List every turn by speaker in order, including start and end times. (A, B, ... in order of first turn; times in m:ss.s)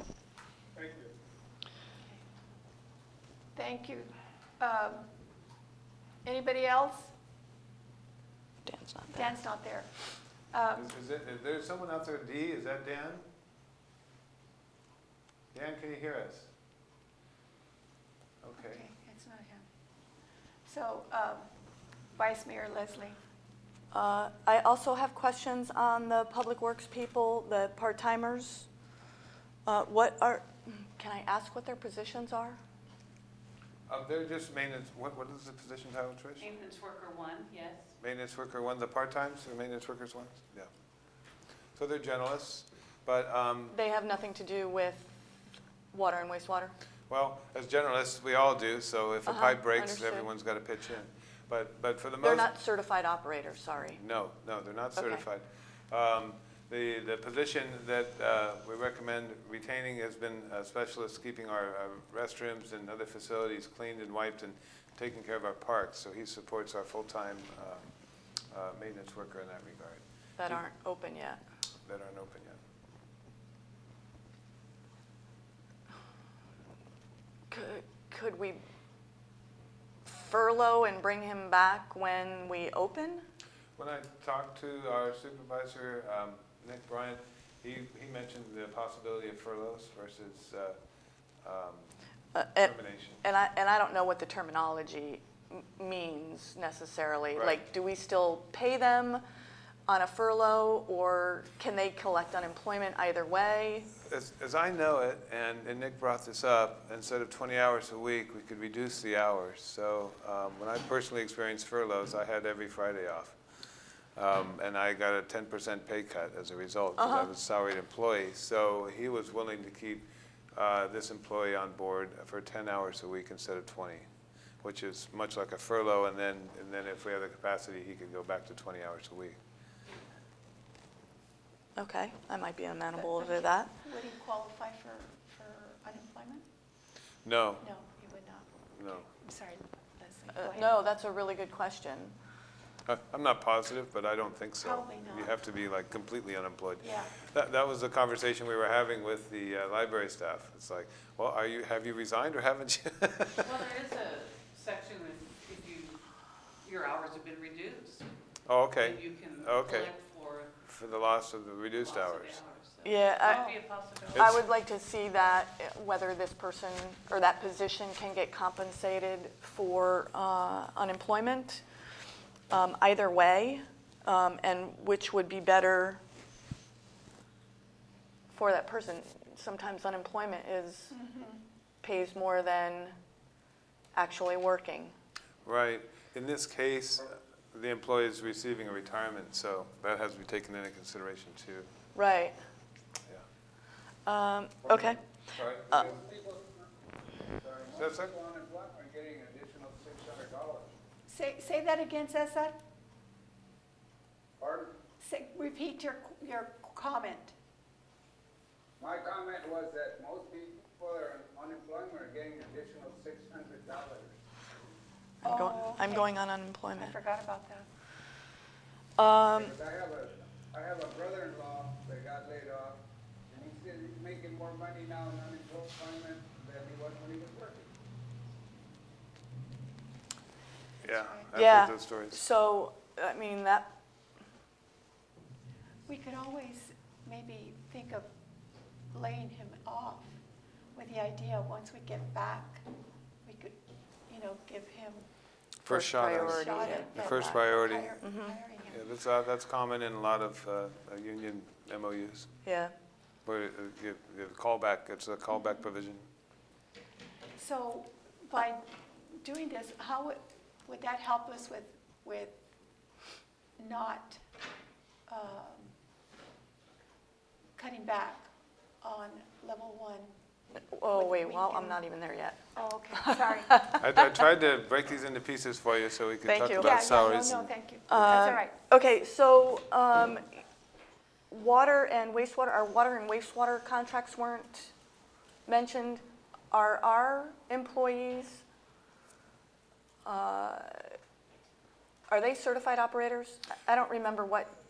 0:00.8-0:01.1 A
0:03.5-0:05.0 B
0:06.2-0:07.1 B
0:08.6-0:09.3 C
0:09.1-0:10.9 B
0:10.7-0:13.3 D
0:15.5-0:16.5 D
0:18.4-0:18.8 D
0:18.6-0:19.6 B
0:20.6-0:21.5 B
0:22.1-0:23.2 B
0:23.9-0:28.7 C
0:29.6-0:32.6 C
0:33.9-0:36.5 D
0:36.4-0:37.9 E
0:38.0-0:40.7 D
0:41.7-0:43.8 D
0:43.7-0:45.1 C
0:45.9-0:46.7 C
0:47.1-0:52.5 D
0:49.2-0:50.3 C
0:52.2-0:54.0 C
0:54.0-1:07.9 D
0:55.0-0:55.2 C
1:08.5-1:10.6 D
1:10.4-1:11.4 C
1:11.8-1:12.6 D
1:17.5-1:18.6 C
1:20.0-1:23.2 C
1:23.8-1:30.8 D
1:31.4-1:31.9 D
1:32.3-1:39.2 C
1:32.6-1:33.2 D
1:37.3-1:37.6 D
1:39.9-1:43.9 C
1:44.1-1:53.4 D
1:54.2-2:04.0 D
1:57.0-1:57.3 C
2:04.6-2:09.4 D
2:11.8-2:13.8 C
2:13.0-2:16.4 B
2:17.2-2:17.6 D
2:17.6-2:20.7 B
2:18.8-2:19.0 D
2:20.3-2:22.1 C
2:22.8-2:33.5 D
2:24.6-2:25.4 B
2:26.8-2:27.2 B
2:33.4-2:36.0 E
2:36.6-2:38.0 E
2:38.4-2:39.9 D
2:38.8-2:40.6 E
2:40.6-2:42.4 D
2:41.7-2:44.3 E
2:42.8-2:43.5 C
2:43.2-2:43.6 B
2:44.1-2:51.6 C
2:44.2-2:44.4 D
2:52.5-2:56.0 C
2:58.3-3:00.9 C
3:00.9-3:01.4 B
3:01.8-3:03.0 C
3:03.9-3:04.9 C
3:05.4-3:11.7 D
3:11.9-3:12.4 C
3:14.0-3:15.2 C
3:14.8-3:16.0 D
3:15.7-3:16.7 A
3:17.3-3:20.7 A
3:17.7-3:18.1 D
3:21.0-3:22.6 B
3:24.4-3:24.8 A
3:25.0-3:27.3 B
3:28.8-3:34.2 A
3:35.2-3:37.0 C
3:35.2-3:36.1 B
3:36.7-3:37.7 B
3:39.0-3:39.5 C
3:39.3-3:47.7 A
3:50.8-3:51.3 B
3:50.8-3:52.2 D
3:51.3-3:53.7 C
3:55.9-3:58.1 B
3:58.9-4:00.2 B
4:00.7-4:02.7 B
4:03.2-4:05.1 B
4:05.6-4:08.0 D
4:05.7-4:07.4 C
4:06.0-4:08.9 B
4:08.0-4:08.3 C
4:08.7-4:12.3 D
4:12.4-4:12.7 C
4:13.2-4:16.1 D
4:17.4-4:22.4 B
4:23.6-4:24.2 B
4:25.1-4:25.7 B
4:27.6-4:28.3 B
4:28.8-4:30.2 B
4:30.6-4:32.4 C
4:30.9-4:31.8 B
4:32.5-4:33.6 B
4:33.0-4:34.1 C
4:33.7-4:37.5 D
4:36.2-4:36.8 C
4:36.6-4:38.6 B
4:37.9-4:40.4 C
4:41.3-4:44.7 C
4:45.5-4:48.4 C
4:50.0-4:50.9 C
4:52.1-4:54.5 C